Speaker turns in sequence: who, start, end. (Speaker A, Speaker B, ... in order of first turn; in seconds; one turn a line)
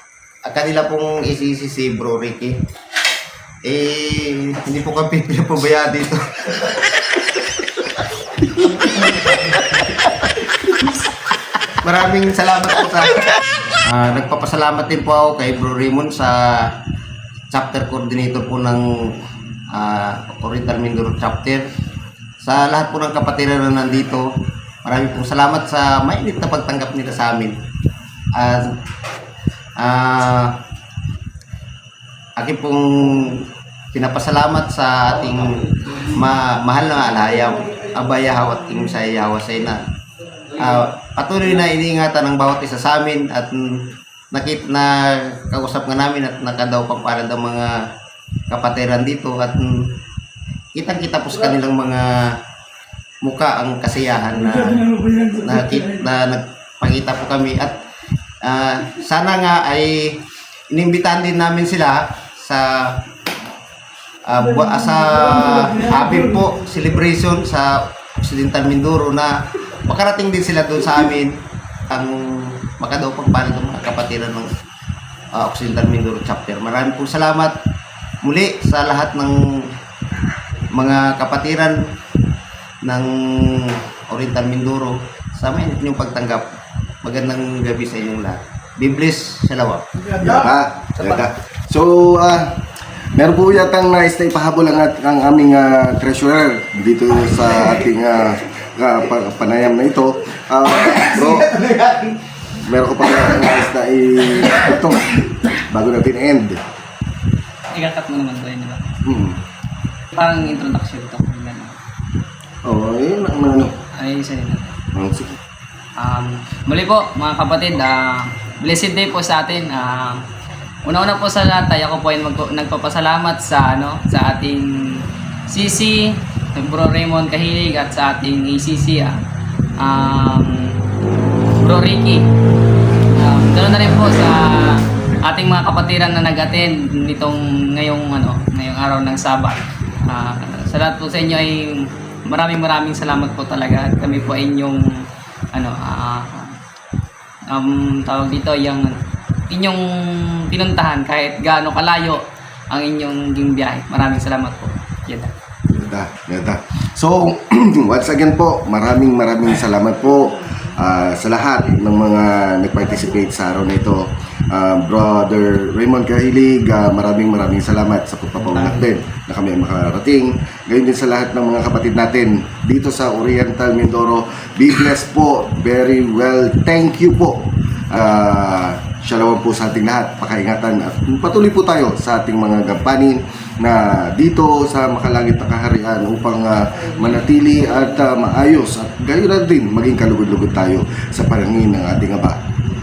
Speaker A: 0.5-2.5
Speaker A: 3.6-6.7
Speaker A: 11.8-13.3
Speaker A: 13.8-16.7
Speaker A: 17.5-19.1
Speaker A: 19.7-21.6
Speaker A: 22.4-24.3
Speaker A: 24.8-27.5
Speaker A: 28.4-28.7
Speaker A: 29.8-30.6
Speaker A: 32.4-39.8
Speaker A: 40.5-47.8
Speaker A: 48.5-49.9
Speaker A: 50.7-52.4
Speaker A: 53.2-57.8
Speaker A: 58.4-60.1
Speaker A: 60.7-63.0
Speaker A: 64.2-71.3
Speaker A: 71.9-74.5
Speaker A: 75.3-77.5
Speaker A: 78.2-79.7
Speaker A: 80.7-81.8
Speaker A: 82.8-86.5
Speaker A: 87.0-89.8
Speaker B: 90.1-92.5
Speaker B: 93.1-101.6
Speaker B: 102.7-106.6
Speaker C: 107.7-108.8
Speaker B: 109.0-109.4
Speaker C: 110.1-111.8
Speaker B: 112.6-113.7
Speaker C: 114.0-114.7
Speaker B: 114.9-115.4
Speaker C: 116.0-120.2
Speaker C: 120.8-129.2
Speaker C: 129.8-130.7
Speaker C: 131.6-132.2
Speaker C: 133.2-144.9
Speaker C: 145.5-146.5
Speaker C: 147.5-149.0
Speaker C: 149.5-149.8
Speaker C: 150.5-155.3
Speaker B: 155.7-192.4